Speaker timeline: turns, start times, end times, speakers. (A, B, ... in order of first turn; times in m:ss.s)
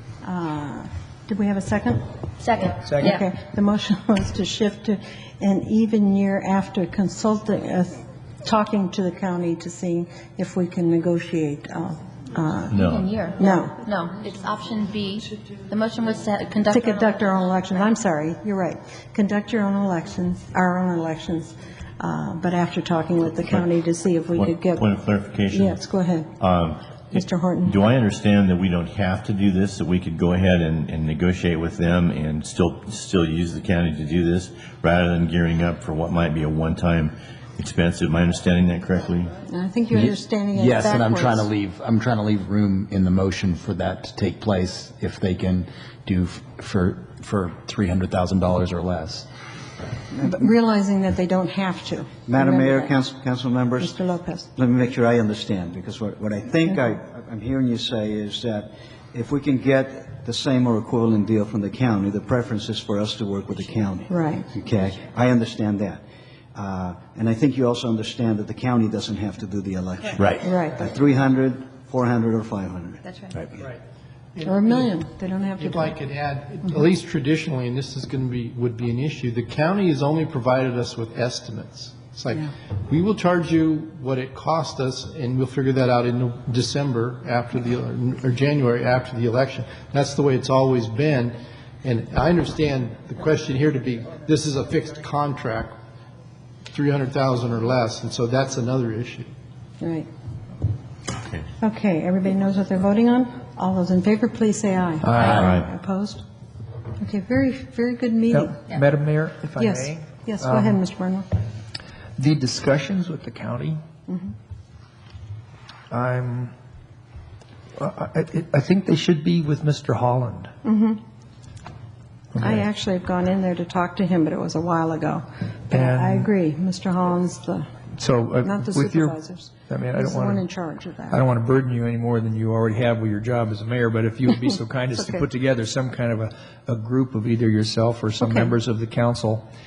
0:00.2-0:02.0 A
0:02.4-0:03.2 B
0:02.6-0:12.8 A
0:02.9-0:03.1 C
0:12.8-0:17.8 B
0:13.4-0:13.8 A
0:16.7-0:24.9 A
0:24.4-0:25.7 D
0:25.5-0:26.3 A
0:26.4-0:39.3 D
0:27.1-0:27.8 A
0:39.5-0:41.5 A
0:39.9-0:49.3 E
0:50.2-0:53.0 A
0:52.3-0:53.9 F
0:53.8-0:54.5 A
0:54.6-1:06.0 F
1:04.1-1:04.5 A
1:06.5-1:13.0 F
1:10.4-1:10.8 A
1:13.0-1:13.5 B
1:14.4-1:15.0 G
1:14.4-1:16.0 A
1:15.6-1:35.8 G
1:36.7-1:39.3 G
1:39.8-1:40.1 A
1:41.6-1:46.2 A
1:45.0-1:45.6 C
1:47.0-1:48.6 A
1:48.3-1:50.8 C
1:49.6-1:51.3 A
1:52.2-1:53.8 C
1:54.1-1:54.3 A
1:55.9-1:56.5 C
1:57.8-2:00.5 C
2:00.6-2:01.0 A
2:02.4-2:02.6 C
2:02.4-2:07.7 A
2:05.7-2:06.3 C
2:08.0-2:09.2 C
2:08.4-2:11.2 A
2:09.7-2:10.4 C
2:11.1-2:19.4 C
2:14.9-2:15.2 A
2:18.2-2:18.5 A